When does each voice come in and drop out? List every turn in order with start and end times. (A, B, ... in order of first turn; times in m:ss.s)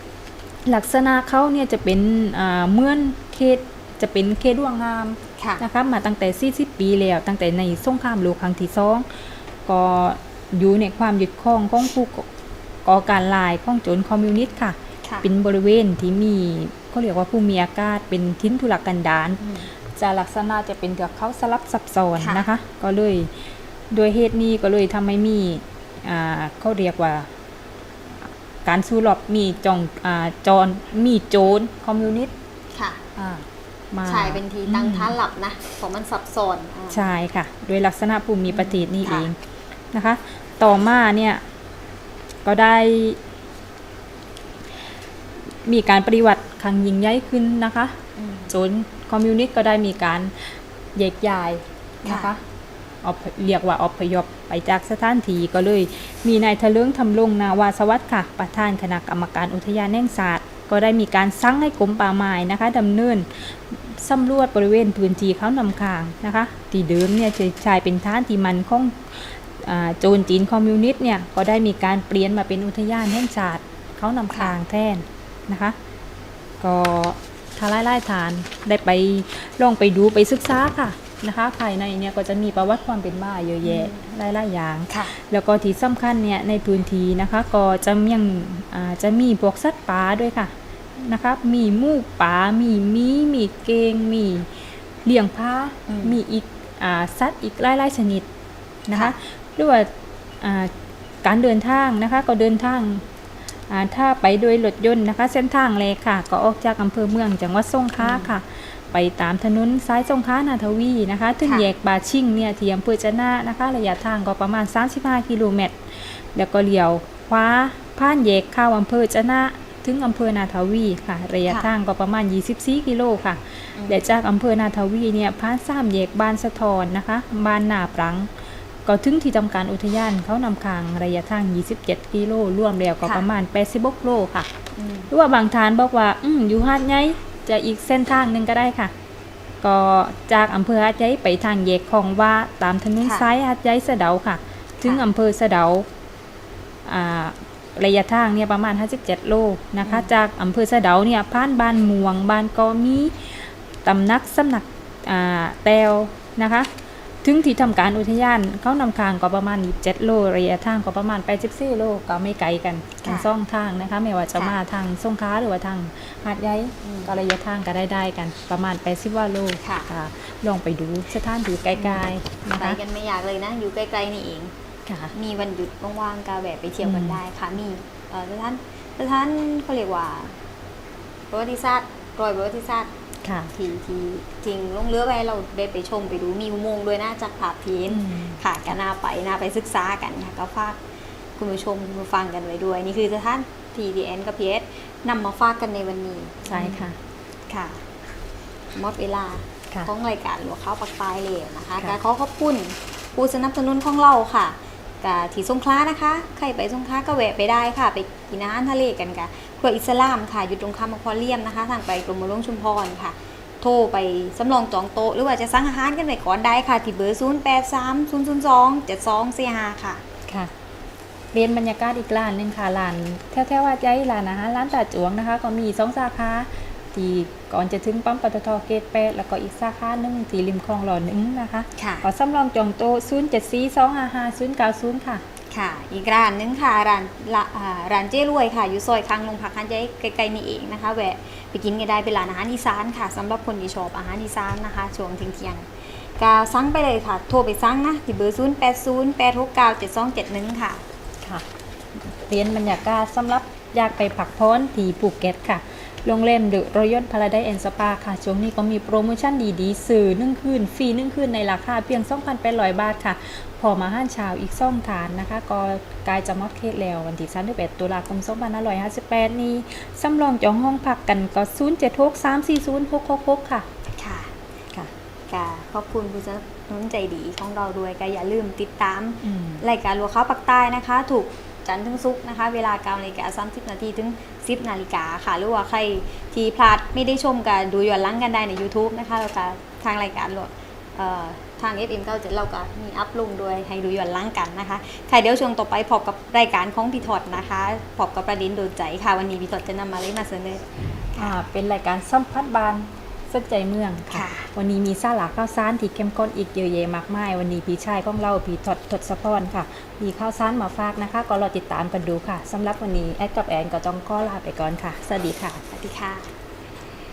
0:00.6-0:12.3 A
0:05.4-0:05.6 B
0:12.8-0:19.4 A
0:19.4-0:19.7 B
0:19.9-0:23.3 A
0:22.2-0:22.5 B
0:23.9-0:27.3 A
0:28.1-0:32.3 A
0:32.7-0:33.0 B
0:33.2-0:35.1 A
0:34.0-0:37.1 B
0:36.9-0:39.4 A
0:38.5-0:39.3 B
0:39.9-0:41.4 A
0:42.4-0:43.2 A
0:45.6-0:52.4 A
0:48.2-0:48.5 B
0:52.0-0:52.3 B
0:53.0-1:15.8 A
1:16.6-1:34.5 A
1:23.6-1:24.0 B
1:24.9-1:25.1 B
1:35.0-1:38.3 A
1:35.9-1:36.2 B
1:38.9-1:39.9 A
1:40.4-1:40.7 A
1:41.2-1:43.0 A
1:43.7-2:08.3 A
1:48.0-1:48.3 B
1:51.4-1:51.7 B
2:08.8-2:14.5 A
2:14.8-2:15.1 B
2:15.1-2:18.9 A
2:19.6-2:25.9 A
2:26.8-2:36.7 A
2:37.2-2:52.8 A
2:43.0-2:43.3 B
2:46.8-2:47.1 B
2:49.6-2:49.9 B
2:52.5-2:54.5 B
2:54.9-2:55.1 A
2:55.1-3:00.4 B
2:56.8-2:57.2 A
3:01.3-3:02.9 B
3:03.2-3:03.5 A
3:03.5-3:10.8 B
3:07.9-3:08.4 A
3:11.4-3:16.8 B
3:16.5-3:17.0 A
3:17.5-3:17.8 B
3:18.7-3:40.0 B
3:40.3-3:40.5 A
3:41.3-3:55.2 A
3:51.8-3:52.0 B
3:55.5-4:10.8 B
4:11.2-4:33.6 A
4:34.0-4:34.3 B
4:35.3-5:01.3 B
4:39.2-4:39.6 A
5:01.2-5:15.6 A
5:04.1-5:04.5 B
5:15.7-5:16.3 B